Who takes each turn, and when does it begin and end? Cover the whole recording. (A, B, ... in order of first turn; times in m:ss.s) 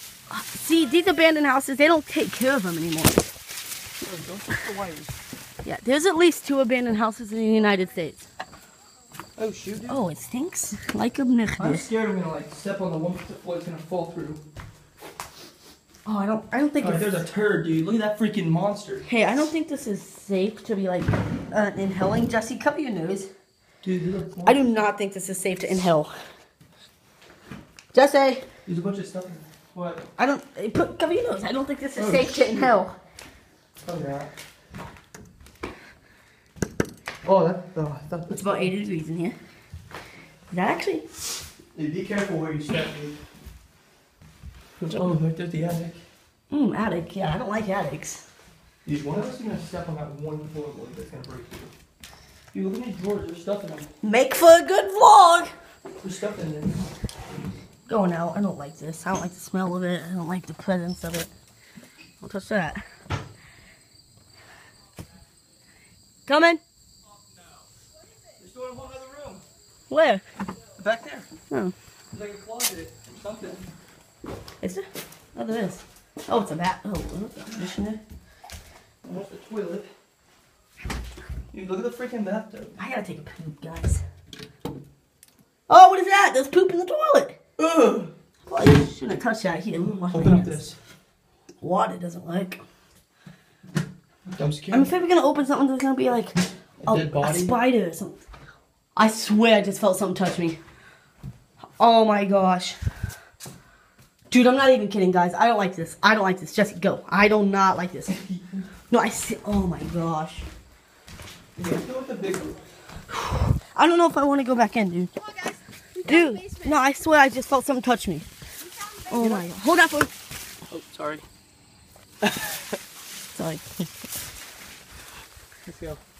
0:00.3-0:03.2 A
0:04.0-0:05.1 B
0:05.6-0:08.2 A
0:09.4-0:10.0 B
0:09.9-0:11.9 A
0:11.6-0:14.4 B
0:16.0-0:17.2 A
0:16.8-0:19.1 B
0:19.0-0:23.3 A
0:23.8-0:24.8 B
0:24.4-0:26.1 A
0:27.9-0:28.4 A
0:28.6-0:30.0 B
0:30.2-0:33.0 A
0:32.0-0:32.8 B
0:33.8-0:34.3 B
0:37.2-0:38.7 B
0:38.3-0:39.4 A
0:40.5-0:41.0 A
0:41.7-0:43.2 B
0:44.8-0:46.0 B
0:46.5-0:48.2 A
0:48.8-0:51.7 B
0:52.5-0:53.9 B
0:54.0-0:55.5 A
0:56.0-0:56.8 B
0:57.9-1:01.3 A
1:02.2-1:02.8 A
1:06.3-1:06.6 A
1:08.4-1:09.4 B
1:09.9-1:10.2 A
1:10.8-1:11.3 B
1:12.1-1:13.6 B
1:14.6-1:18.0 A
1:19.0-1:19.9 B
1:21.5-1:22.7 B
1:22.8-1:24.0 A
1:25.7-1:27.4 A
1:27.6-1:28.1 B
1:28.5-1:30.6 A
1:30.1-1:30.8 B
1:31.6-1:32.6 A
1:34.2-1:34.9 B
1:34.7-1:38.2 A
1:36.8-1:37.6 B
1:38.9-1:40.6 A
1:41.8-1:42.8 A
1:44.3-1:48.2 A
1:48.2-1:48.6 B
1:48.9-1:50.4 A
1:51.6-1:52.6 B
1:53.1-1:55.1 A
1:55.2-1:56.7 C
1:56.0-1:58.3 A
1:58.6-1:59.3 C
1:59.1-2:00.1 A
2:00.7-2:01.2 B
2:02.2-2:02.5 B
2:03.3-2:03.9 A
2:05.6-2:06.0 B